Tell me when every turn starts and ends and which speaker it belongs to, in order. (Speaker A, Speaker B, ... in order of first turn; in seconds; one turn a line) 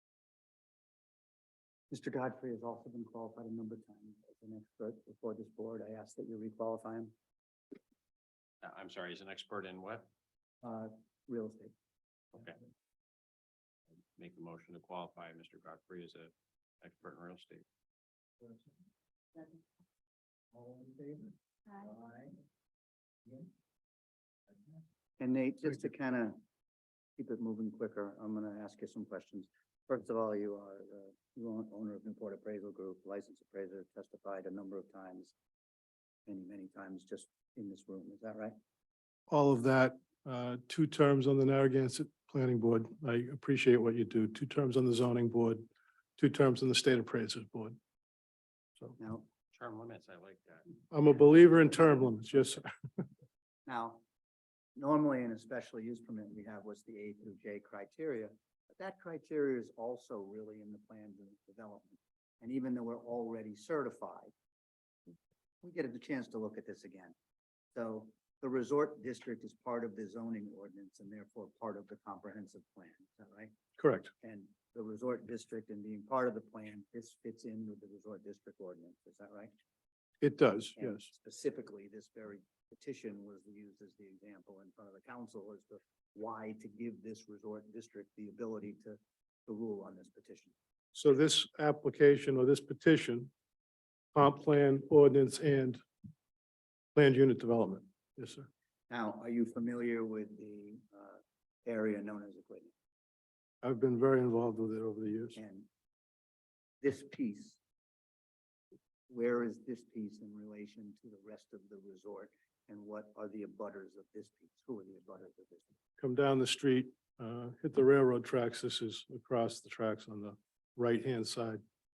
Speaker A: 1.9-7.1
Speaker B: 8.6-10.1
Speaker A: 10.6-11.7
Speaker B: 14.2-17.6
Speaker A: 20.5-22.4
Speaker A: 24.7-26.4
Speaker A: 27.2-35.3
Speaker A: 36.3-38.5
Speaker C: 39.3-45.7
Speaker C: 46.2-47.8
Speaker A: 49.0-49.2
Speaker B: 49.5-50.8
Speaker C: 50.9-53.0
Speaker A: 53.7-54.0
Speaker A: 54.8-64.3
Speaker A: 65.6-67.1
Speaker A: 67.7-73.5
Speaker C: 73.8-74.1
Speaker A: 74.2-79.5
Speaker C: 80.2-81.1
Speaker A: 80.8-90.5
Speaker C: 90.9-93.3
Speaker C: 94.1-95.8
Speaker C: 97.0-98.5
Speaker A: 98.9-102.7
Speaker C: 103.6-105.4
Speaker A: 105.4-105.7
Speaker A: 106.8-107.6
Speaker A: 109.1-115.7
Speaker C: 116.0-121.6